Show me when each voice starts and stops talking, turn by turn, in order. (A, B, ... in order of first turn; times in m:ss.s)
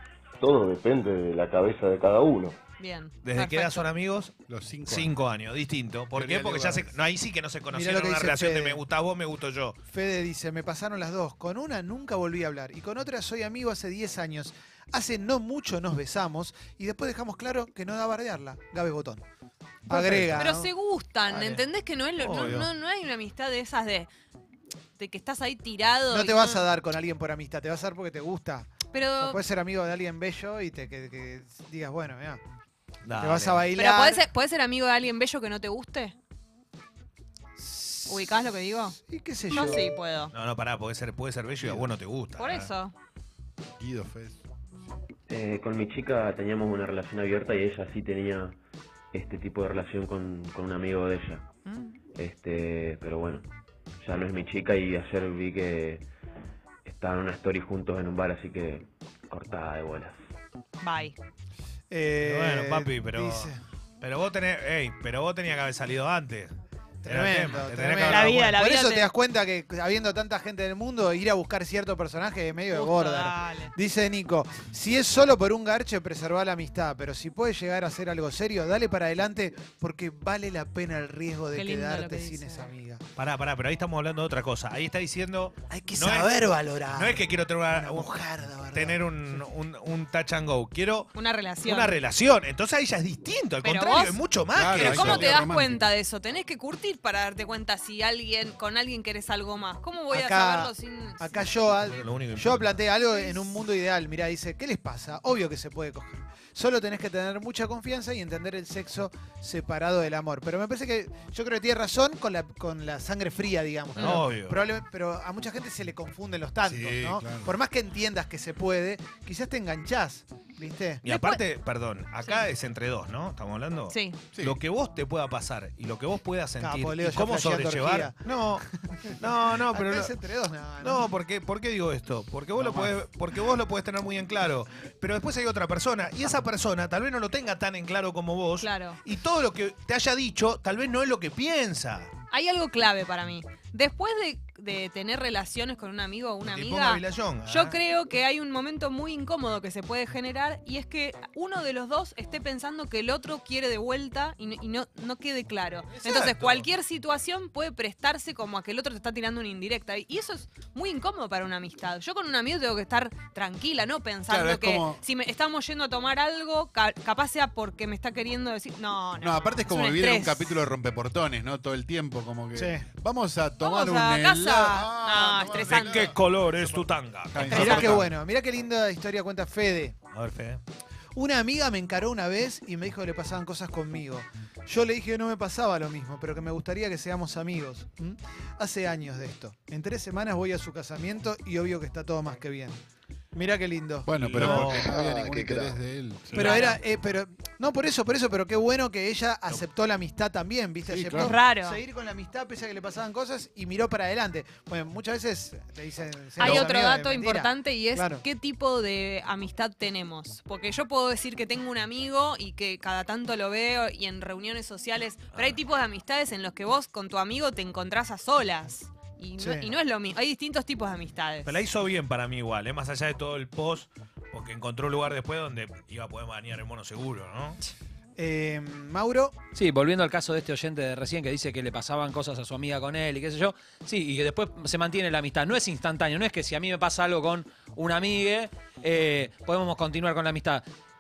0:00.4-0:02.6 A
0:02.8-0:03.8 B
0:03.2-0:04.4 C
0:04.5-0:05.1 D
0:04.9-0:09.8 C
0:06.1-0:06.9 D
0:07.7-0:08.8 E
0:09.9-0:19.2 E
0:19.9-0:20.7 E
0:20.1-0:20.4 D
0:20.3-0:24.1 B
0:21.3-0:21.6 E
0:22.2-0:22.6 C
0:22.3-0:22.7 E
0:25.0-0:26.7 B
0:26.1-0:32.4 E
0:28.9-0:29.4 B
0:33.0-0:33.7 C
0:33.2-0:34.2 E
0:33.8-0:36.2 B
0:37.6-0:38.3 E
0:38.1-0:39.0 B
0:39.1-0:39.8 E
0:39.5-0:40.3 B
0:40.3-0:42.7 C
0:41.6-0:41.9 D
0:42.4-0:42.9 B
0:43.8-0:44.4 D
0:45.3-0:48.6 F
0:49.1-0:51.5 F
0:51.7-0:52.0 B
0:52.2-0:53.5 F
0:54.0-0:56.0 F
0:56.8-1:00.2 F
1:00.8-1:01.2 B
1:01.9-1:03.6 E
1:02.2-1:06.5 C
1:07.0-1:23.0 E
1:07.1-1:08.5 C
1:08.1-1:09.1 B
1:12.7-1:13.7 B
1:21.5-1:22.7 B
1:23.2-1:28.2 C
1:25.7-1:29.4 E
1:28.7-1:31.1 C
1:31.2-1:32.0 B
1:31.6-1:35.4 C
1:33.6-1:34.2 B
1:34.5-1:35.8 D
1:34.8-1:41.5 B
1:40.1-2:01.0 E
1:41.8-1:42.8 C
1:54.0-1:54.2 B
1:54.0-1:54.6 C
1:56.6-1:57.5 D
2:01.0-2:08.6 C
2:01.1-2:01.4 B
2:02.2-2:02.5 B
2:03.9-2:04.2 B
2:06.6-2:09.1 E
2:09.2-2:10.1 C
2:09.7-2:11.1 E
2:10.8-2:22.1 C
2:18.6-2:19.0 B
2:22.3-2:50.6 B
2:26.4-2:27.8 C
2:36.0-2:36.7 C
2:44.3-2:45.0 D
2:49.2-2:58.1 D
2:52.6-2:52.9 E
2:53.6-2:56.1 B
2:55.8-2:58.0 C
2:57.5-3:00.0 E
3:00.1-3:00.6 C
3:01.2-3:12.8 E
3:13.3-3:14.8 E
3:14.1-3:16.5 D
3:14.2-3:14.9 C
3:15.0-3:15.8 A
3:16.3-3:28.2 E
3:16.4-3:16.8 B
3:20.9-3:21.4 D
3:21.2-3:21.8 B
3:26.4-3:41.6 B
3:35.4-3:35.6 C
3:39.4-3:39.7 E
3:41.4-3:47.6 C
3:48.2-3:49.4 E
3:49.6-4:00.6 G